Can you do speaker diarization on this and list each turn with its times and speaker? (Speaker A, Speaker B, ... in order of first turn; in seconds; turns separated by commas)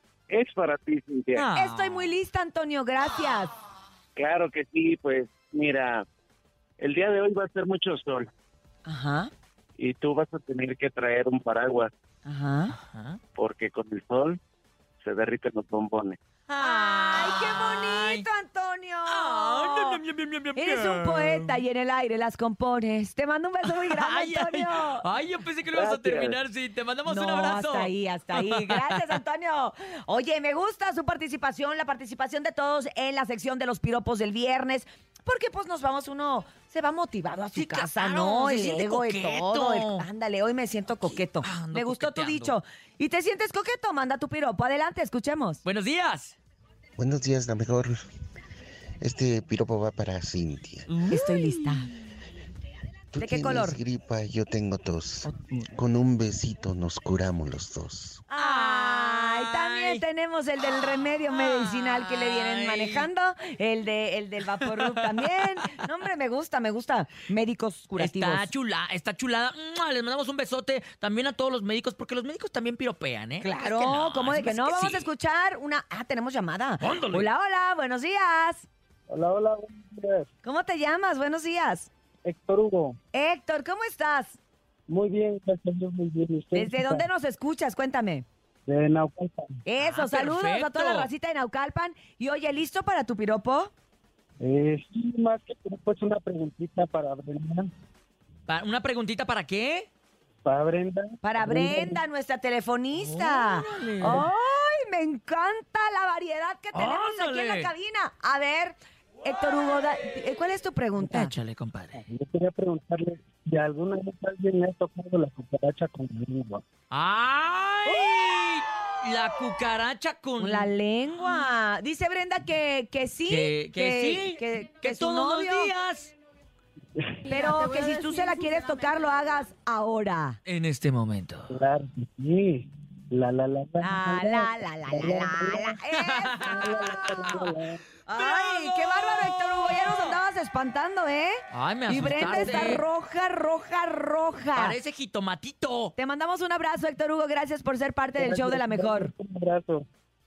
Speaker A: 0.3-1.4, Speaker B: 1.4-2.1, Speaker C: 1.6-3.5, Speaker A: 4.2-6.1, Speaker A: 6.8-8.3, Speaker C: 8.9-9.3, Speaker A: 9.8-11.9, Speaker C: 12.2-12.8, Speaker B: 12.8-13.2, Speaker A: 13.4-14.4, Speaker A: 15.0-16.2, Speaker B: 16.5-18.2, Speaker C: 16.6-20.0, Speaker B: 19.1-21.6, Speaker C: 20.6-25.1, Speaker B: 23.6-28.8, Speaker A: 25.7-26.3, Speaker C: 27.1-45.6, Speaker B: 37.5-40.1, Speaker B: 41.0-42.6, Speaker B: 45.6-46.4, Speaker D: 47.0-48.0, Speaker D: 49.0-51.0, Speaker B: 50.9-51.9, Speaker C: 51.1-51.9, Speaker D: 53.1-58.2, Speaker C: 53.2-53.8, Speaker C: 55.3-55.6, Speaker C: 58.3-68.5, Speaker B: 58.4-60.0, Speaker B: 61.3-63.1, Speaker B: 68.0-75.1, Speaker C: 73.4-78.7, Speaker B: 76.8-77.3, Speaker E: 79.1-80.3, Speaker C: 80.4-81.9, Speaker E: 82.2-83.0, Speaker C: 83.1-84.4, Speaker E: 84.9-87.0, Speaker C: 86.5-88.2, Speaker E: 88.7-89.6, Speaker C: 89.7-93.7, Speaker B: 89.8-91.1, Speaker E: 94.4-97.7, Speaker B: 98.5-99.9, Speaker E: 100.5-102.0, Speaker C: 101.2-111.3, Speaker B: 102.9-104.3, Speaker B: 106.7-107.7, Speaker B: 111.0-112.0, Speaker E: 112.1-116.6, Speaker B: 116.9-120.7, Speaker C: 120.4-125.7, Speaker B: 123.3-126.1, Speaker C: 127.3-130.4, Speaker B: 130.5-131.6, Speaker E: 131.5-135.7, Speaker C: 133.8-137.5, Speaker B: 136.0-137.2, Speaker E: 136.4-137.8, Speaker B: 138.1-140.2, Speaker C: 138.1-144.8, Speaker B: 141.5-142.8, Speaker E: 142.3-142.7, Speaker B: 144.6-145.9, Speaker C: 146.0-149.1, Speaker E: 148.2-149.8